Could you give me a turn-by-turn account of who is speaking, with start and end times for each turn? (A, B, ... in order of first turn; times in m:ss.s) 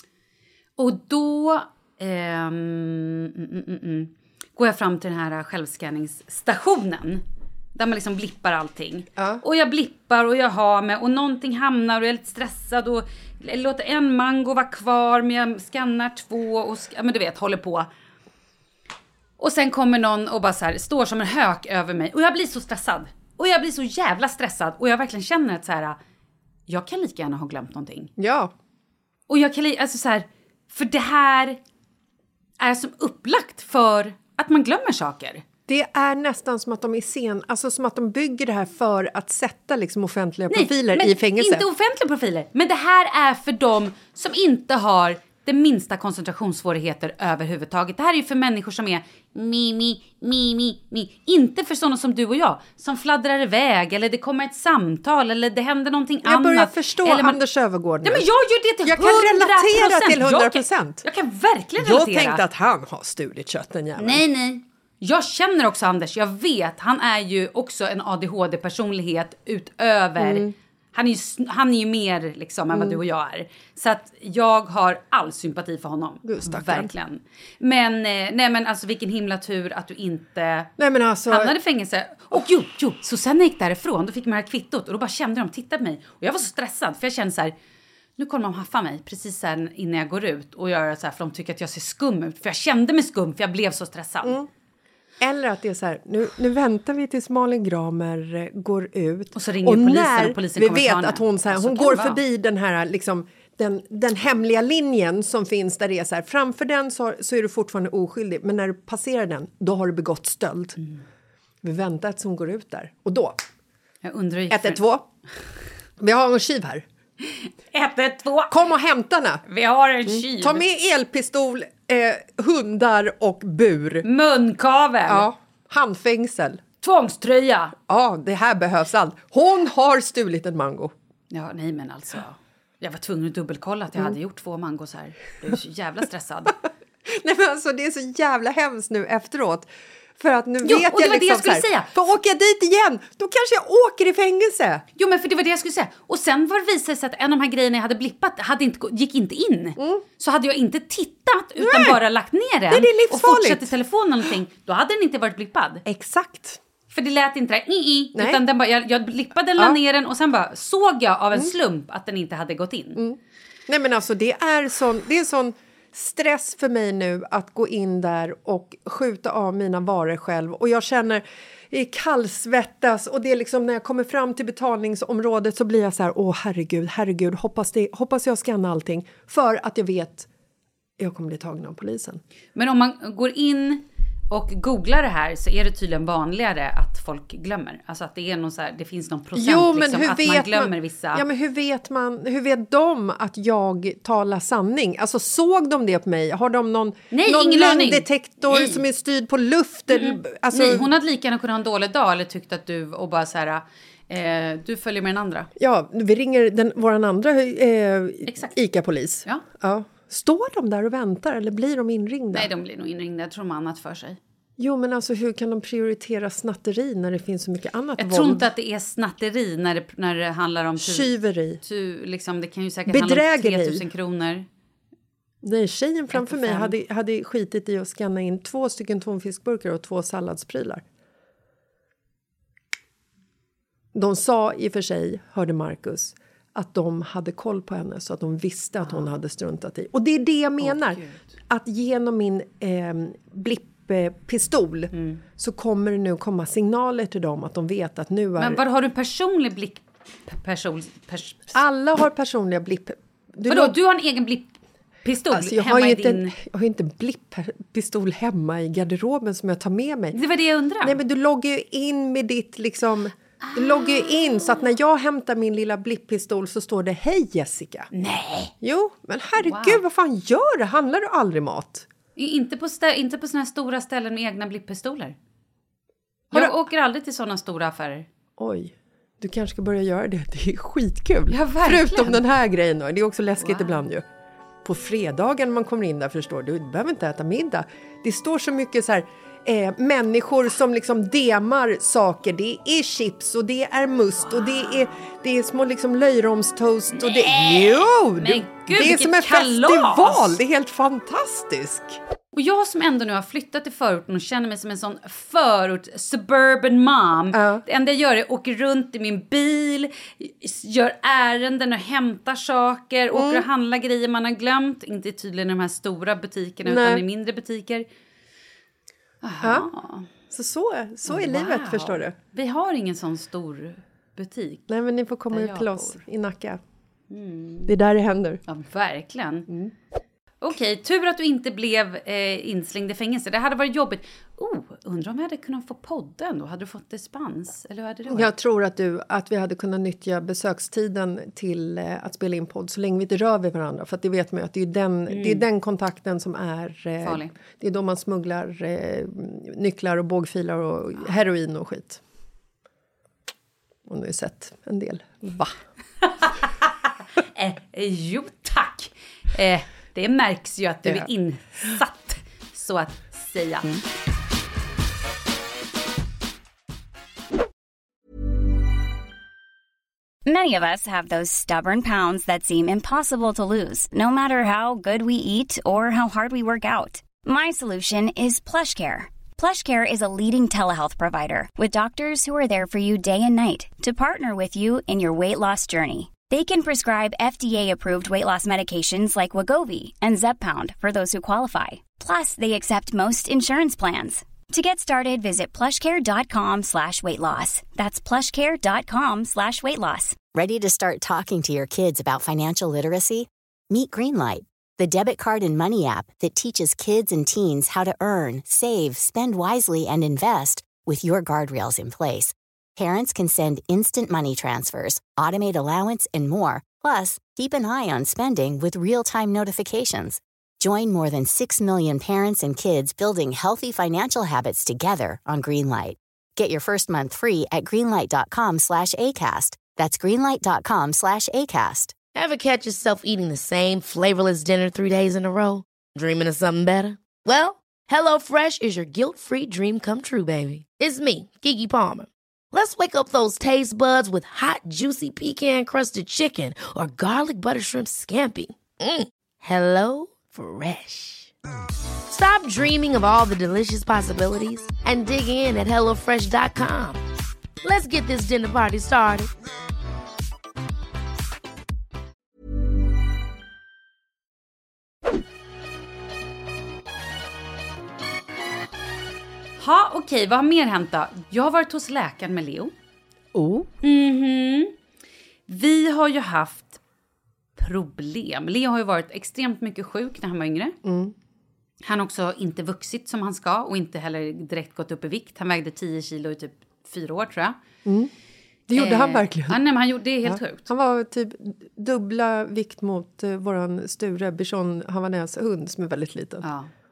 0:00.8-0:07.2 A
0:07.8-0:17.9 A
0:09.2-0:09.4 B
0:19.4-0:26.0 A
0:26.7-0:28.1 A
0:28.2-0:28.5 B
0:29.3-0:31.6 A
0:32.6-0:35.4 A
0:35.7-0:41.7 B
0:40.5-0:57.4 A
0:56.2-0:58.3 B
0:58.0-1:02.4 A
0:58.8-1:01.0 B
1:01.8-1:04.2 B
1:04.0-1:20.7 A
1:10.2-1:10.5 B
1:12.7-1:13.0 B
1:16.3-1:16.9 B
1:20.8-1:21.5 B
1:21.3-1:27.5 A
1:28.2-1:34.4 A
1:35.2-1:50.8 B
1:39.4-1:42.2 A
1:51.6-1:53.4 B
1:54.0-1:54.8 A
1:54.5-1:55.0 B
1:56.0-1:56.8 B
1:57.3-1:58.6 A
1:58.5-1:59.4 B
1:59.5-2:00.6 A
2:00.1-2:04.1 B
2:04.0-2:05.3 A
2:05.1-2:06.6 B
2:06.8-2:07.8 A
2:07.9-2:10.9 B
2:11.3-2:16.6 A
2:17.1-2:24.8 B
2:20.6-2:21.9 A
2:25.0-2:35.8 A
2:29.8-2:30.0 B
2:31.6-2:32.0 B
2:32.7-2:33.7 B
2:35.8-2:36.6 B
2:36.9-2:43.0 A
2:38.1-2:38.4 B
2:43.0-3:00.3 B
3:01.0-3:02.2 B
3:02.6-3:11.2 A
3:09.4-3:20.9 B
3:17.1-3:18.8 A
3:19.9-3:25.5 A
3:25.6-3:32.5 B
3:28.3-3:28.5 A
3:32.3-3:34.2 A
3:34.6-3:38.5 B
3:38.0-3:44.4 A
3:40.8-3:41.6 B
3:42.9-3:43.8 B
3:45.4-3:50.8 B
3:46.1-3:46.7 A
3:53.9-4:08.6 B
3:58.8-3:59.1 A
4:00.6-4:01.2 A
4:05.0-4:05.2 A
4:08.4-4:11.6 A
4:11.5-4:13.8 B
4:13.5-4:16.3 A
4:15.3-4:20.2 B
4:20.2-4:21.0 A
4:20.8-4:27.9 B
4:23.4-4:24.6 A
4:27.9-4:28.5 A
4:28.6-4:31.9 B
4:29.4-4:29.8 A
4:32.2-4:35.2 A
4:36.3-4:38.1 A
4:38.4-4:44.0 B
4:41.3-4:42.2 A
4:43.4-4:43.8 A
4:44.6-5:02.0 B
4:54.3-4:54.9 A
4:57.0-5:00.4 A
5:02.3-5:17.8 A
5:07.3-5:07.6 B
5:13.1-5:13.5 B
5:16.6-5:17.0 B
5:19.2-5:20.1 A
5:19.4-5:19.7 B
5:20.3-5:22.2 B
5:21.1-5:24.6 A
5:24.7-5:26.6 B
5:25.3-5:26.0 A
5:27.1-5:27.8 A
5:27.7-5:28.4 B
5:28.5-5:29.5 A
5:30.4-5:38.3 A
5:38.1-5:52.0 B
5:45.1-5:45.4 A
5:47.0-5:47.4 A
5:53.9-5:55.6 B
5:57.4-6:03.8 A
6:10.2-6:40.2 C
6:40.3-7:12.0 D
7:12.1-7:31.3 E
7:32.1-7:37.0 E
7:37.6-7:39.3 E
7:49.6-7:52.7 A
7:53.3-7:53.7 B
7:53.8-7:54.7 A
7:55.5-7:56.8 A
7:57.6-8:00.8 A
8:00.8-8:01.1 B
8:01.8-8:07.6 A
8:07.8-8:08.1 B
8:08.7-8:09.6 B
8:08.8-8:10.7 A
8:10.2-8:16.4 B
8:16.4-8:16.7 A